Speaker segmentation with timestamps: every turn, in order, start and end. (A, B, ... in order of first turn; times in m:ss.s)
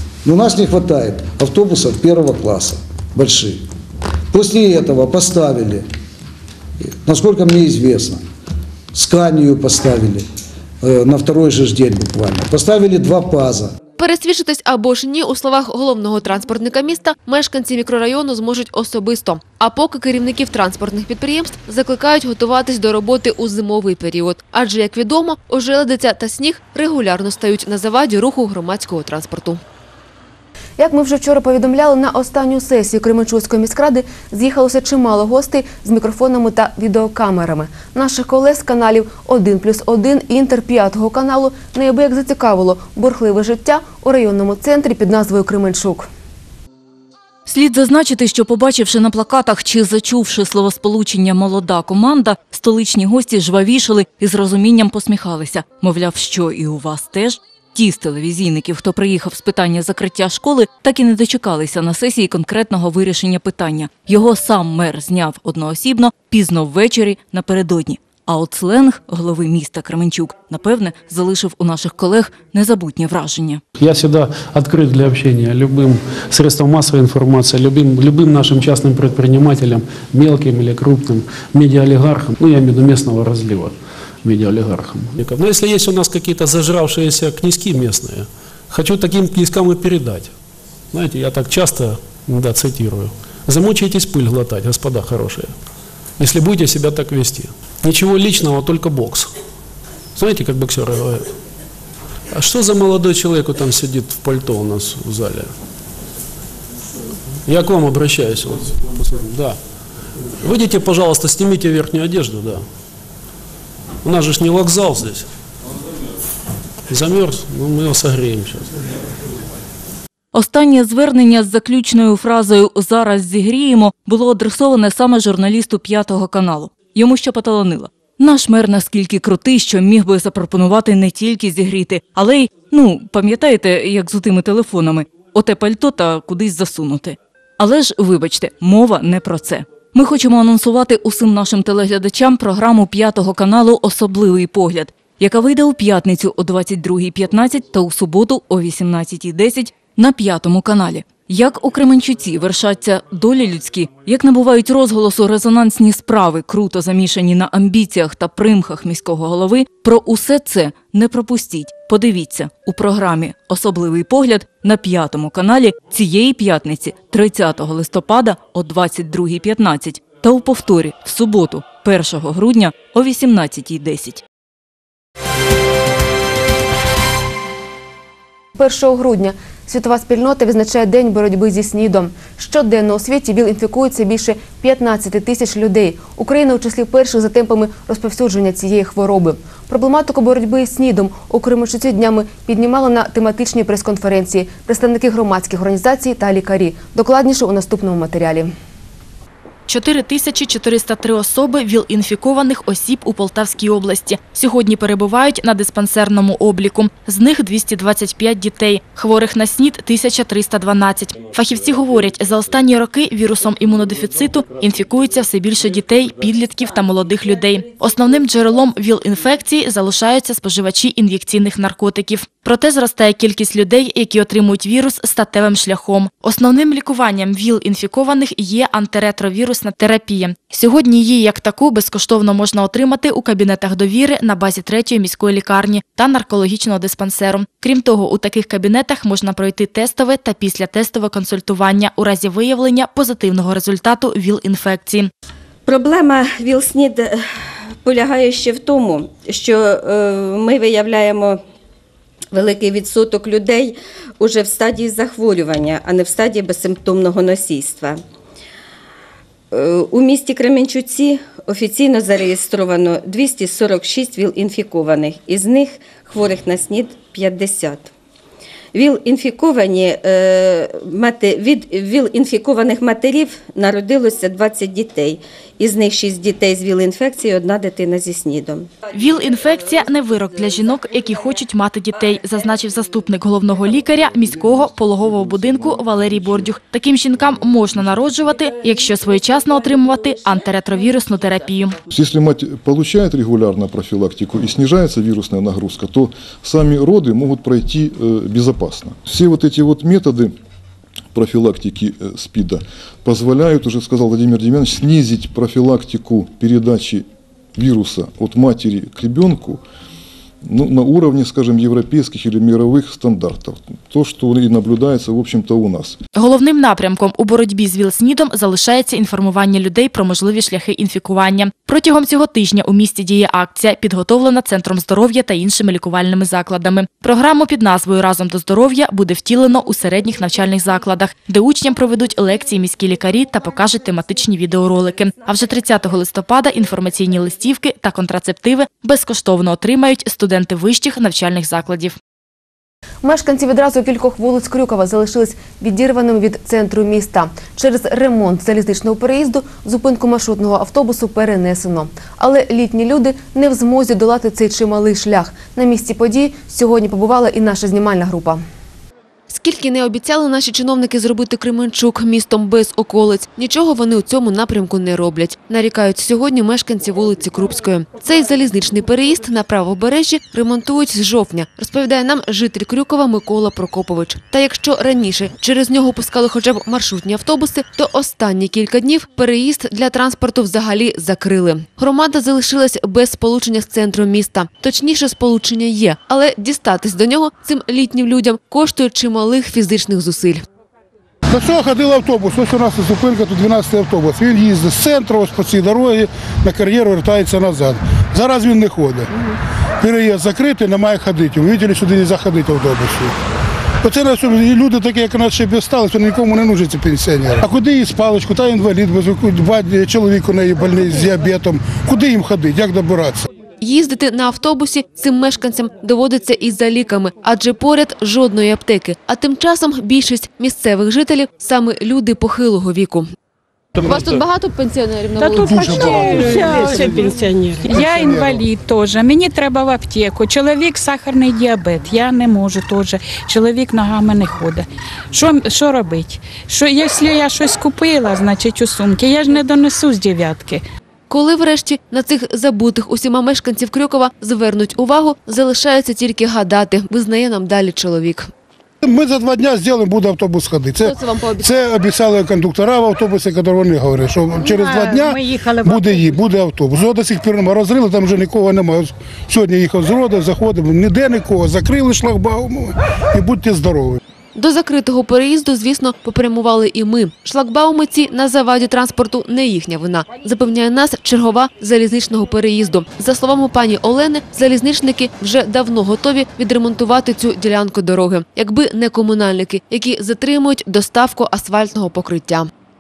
0:00.2-0:03.7 A
0:04.3-0:05.9 A
0:06.8-0:08.2 A
0:08.9-0:10.3 A
0:10.8-0:13.8 A
0:14.0-0:29.6 B
0:30.8-0:46.1 B
0:47.5-1:13.6 C
1:13.8-1:30.3 D
1:30.9-1:35.5 D
1:36.2-1:39.3 D
1:40.2-1:41.3 D
1:42.3-1:45.5 D
1:47.4-1:49.6 D
1:50.4-1:52.6 D
1:54.0-1:55.3 D
1:56.9-1:58.8 D
2:00.3-2:54.2 C
2:58.6-3:18.5 B
3:19.7-4:05.1 E
4:05.7-4:07.2 F
4:07.8-4:11.4 F
4:12.3-4:18.0 F
4:19.5-4:27.9 F
4:28.7-4:38.7 F
4:38.9-4:51.8 E
4:51.9-5:00.3 G
5:01.1-5:09.6 G
5:10.4-5:16.0 G
5:16.2-5:42.0 E
5:43.0-5:58.4 B
5:59.3-6:30.4 B
6:31.3-6:39.1 H
6:39.8-6:43.2 H
6:43.8-6:53.3 H
6:53.6-7:03.1 B
7:03.8-7:04.1 H
7:03.8-7:06.7 B
7:05.2-7:20.6 I
7:05.4-7:08.4 H
7:21.1-7:28.3 B
7:28.8-7:44.0 H
7:30.8-7:31.5 B
7:44.4-8:02.5 B